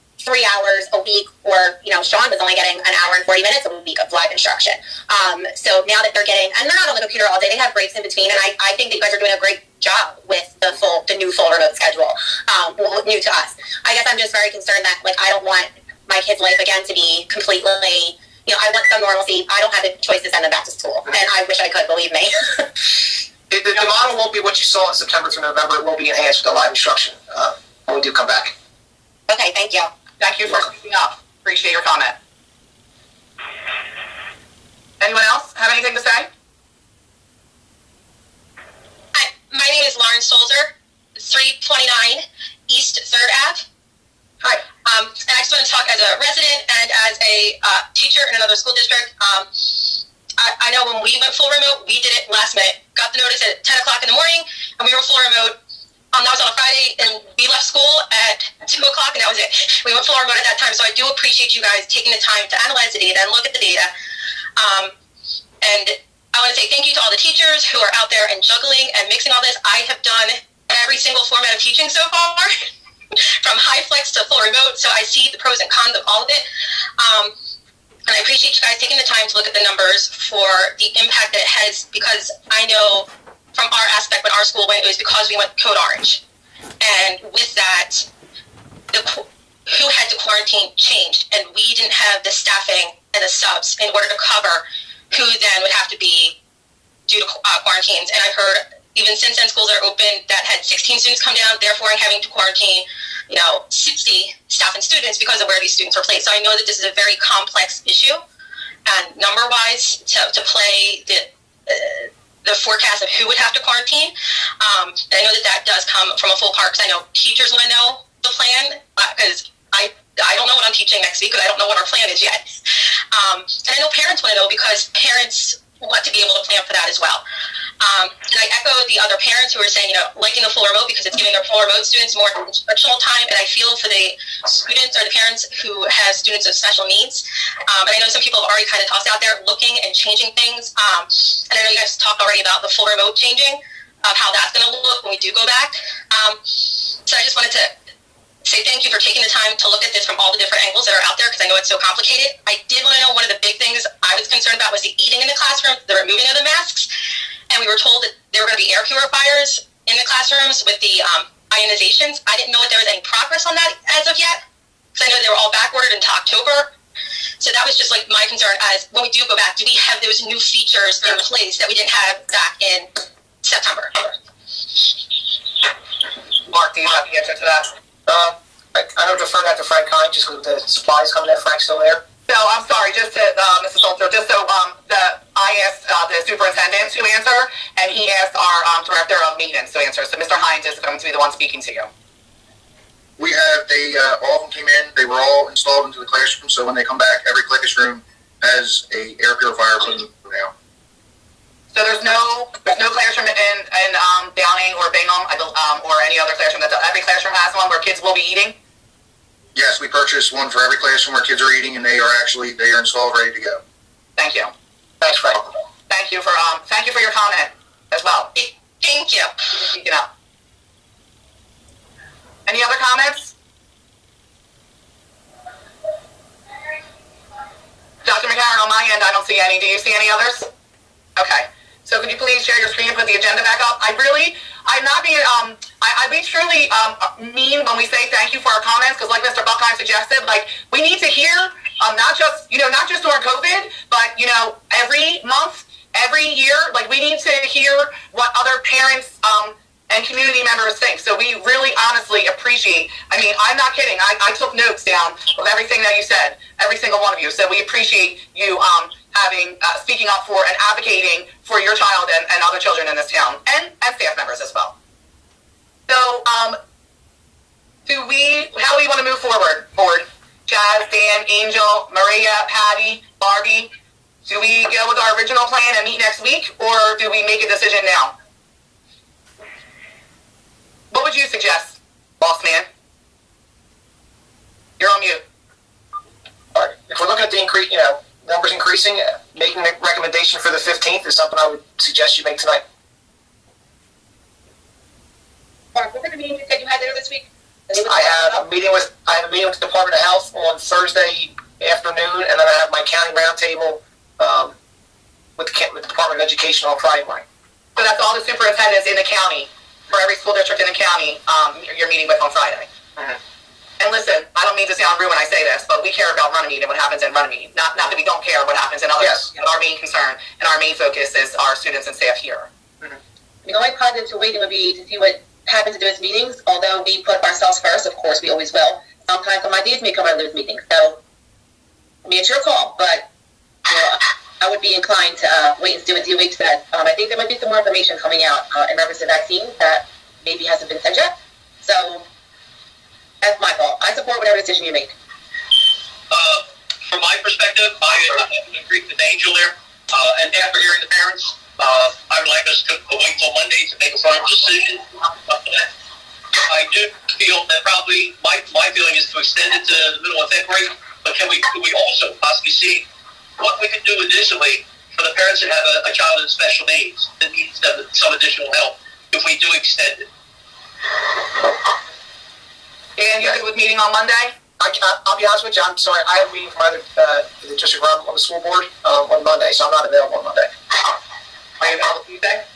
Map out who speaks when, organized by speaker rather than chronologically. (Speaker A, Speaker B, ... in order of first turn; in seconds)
Speaker A: 0.2-22.7, 29.3-29.9
Speaker B: 23.5-28.5, 178.1-182.0, 215.0-215.4, 286.5-292.6, 297.9-304.6, 305.4-307.2, 319.0-319.3, 374.6-380.5
Speaker C: 30.2-32.2, 35.0-36.3, 176.5-177.7, 182.3-191.9, 201.7-208.6, 214.2-214.5, 215.9-218.3, 219.7-220.1, 222.4-223.3, 228.1-230.5, 231.2-264.7, 265.9-266.6, 267.9-273.7, 274.3-278.1, 280.9-282.7, 284.8-285.2, 307.8-312.7, 313.8-322.5, 373.0-374.3, 381.6-382.4
Speaker D: 39.1-43.6, 44.8-55.6, 56.1-63.9, 64.6-64.9, 65.6-72.5, 73.4-76.5, 77.0-77.3, 78.0-86.2, 86.8-88.1, 88.9-96.4, 97.1-108.2, 108.9-122.5, 123.1-127.2, 127.8-147.7, 148.4-156.9, 157.5-164.4, 164.9-166.7, 167.4-172.9, 173.4-174.1, 218.4-219.3
Speaker E: 193.2-200.5, 209.5-213.6
Speaker F: 295.8-298.3, 323.4-331.0, 332.1-333.1, 333.7-341.1, 341.6-342.1, 343.2-344.9
Speaker G: 346.1-355.7, 356.4-362.9, 363.4-370.1